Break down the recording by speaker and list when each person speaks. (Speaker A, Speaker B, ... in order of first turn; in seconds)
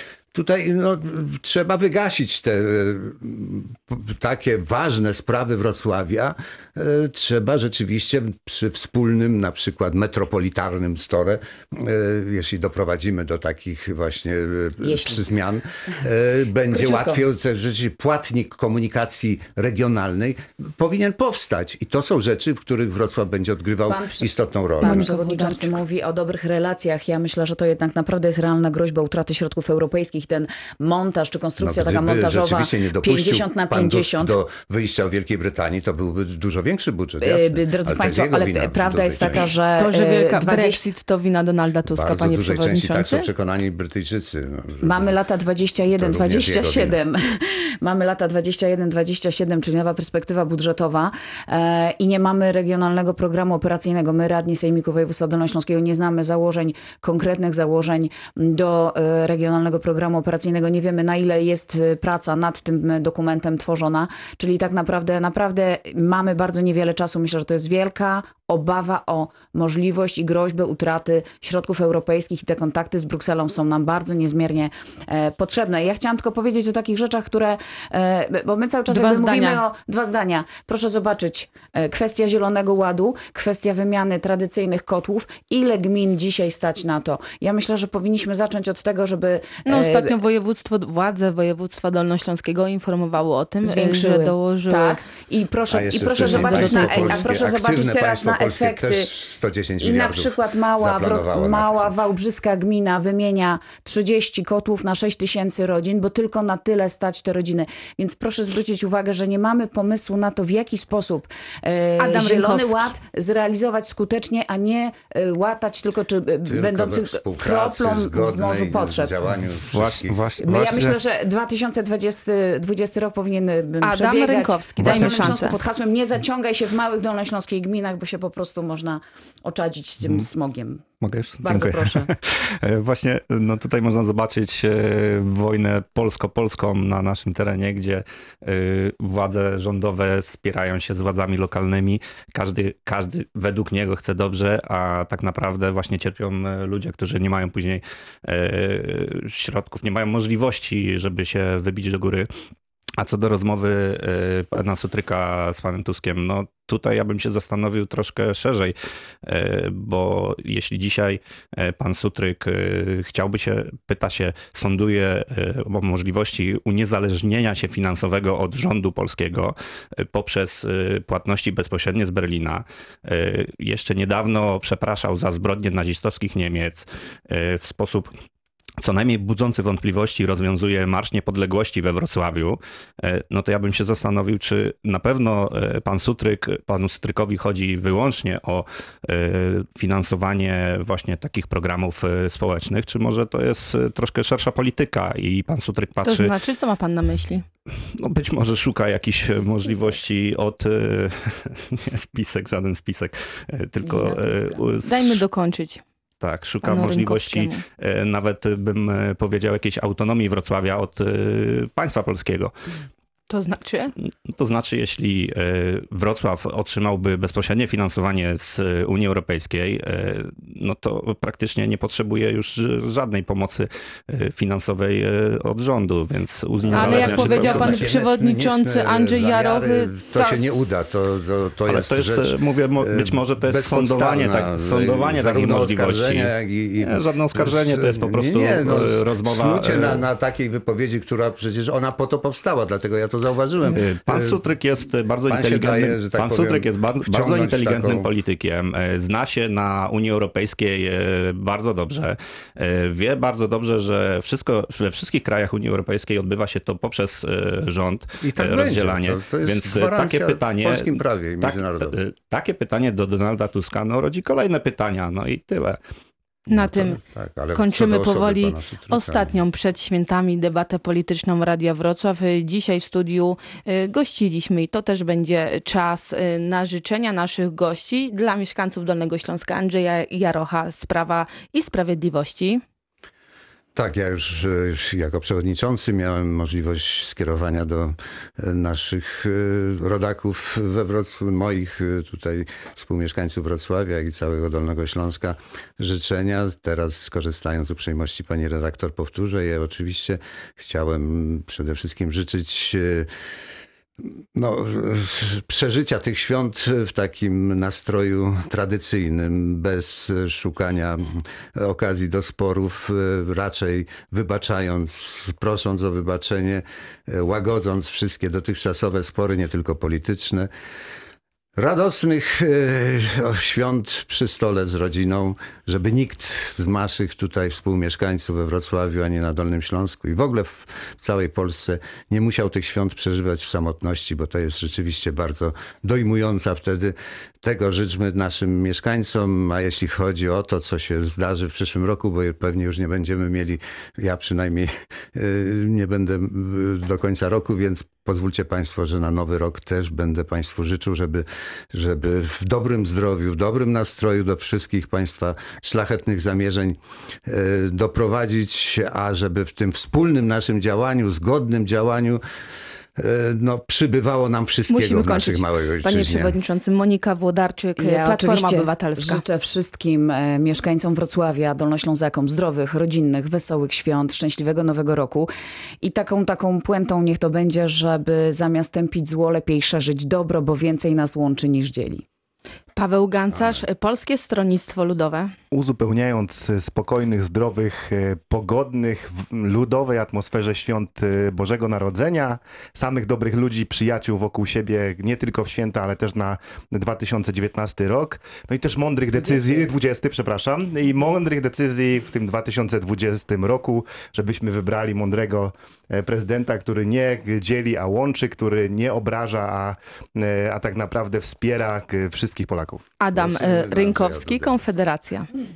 Speaker A: 0.3-25.1, 31.6-39.5, 41.9-45.2, 45.9-47.0, 95.7-102.0, 116.5-120.2, 226.6-244.4, 245.3-248.1, 258.2-262.0, 266.5-269.4, 283.7-303.1, 304.0-320.5, 321.6-362.2, 363.0-366.4, 383.3-383.6, 413.1-414.6
Speaker B: 14.8-15.2, 16.7-17.2, 23.9-34.4, 37.2-40.8, 44.8-90.1, 93.6-99.1, 99.8-119.2, 120.4-130.8, 131.4-132.1, 199.5-199.9, 203.8-204.6, 367.8-375.3, 375.8-382.0, 399.1-399.6
Speaker C: 24.8-25.8, 39.8-43.3, 78.9-79.6, 89.6-95.0, 96.2-97.3, 112.0-112.9, 123.8-125.5, 196.0-197.4, 204.8-205.8, 206.6-207.6, 213.3-213.9, 226.7-230.4, 266.5-267.0, 267.5-282.6, 364.7-369.2, 382.7-385.3, 413.0-415.3
Speaker D: 119.4-121.0, 124.8-125.4, 131.0-152.3, 153.0-158.7, 159.2-178.1, 178.8-196.3, 198.0-205.2, 206.2-212.5, 214.3-227.9, 231.7-240.0, 243.6-265.8
Speaker E: 385.5-412.8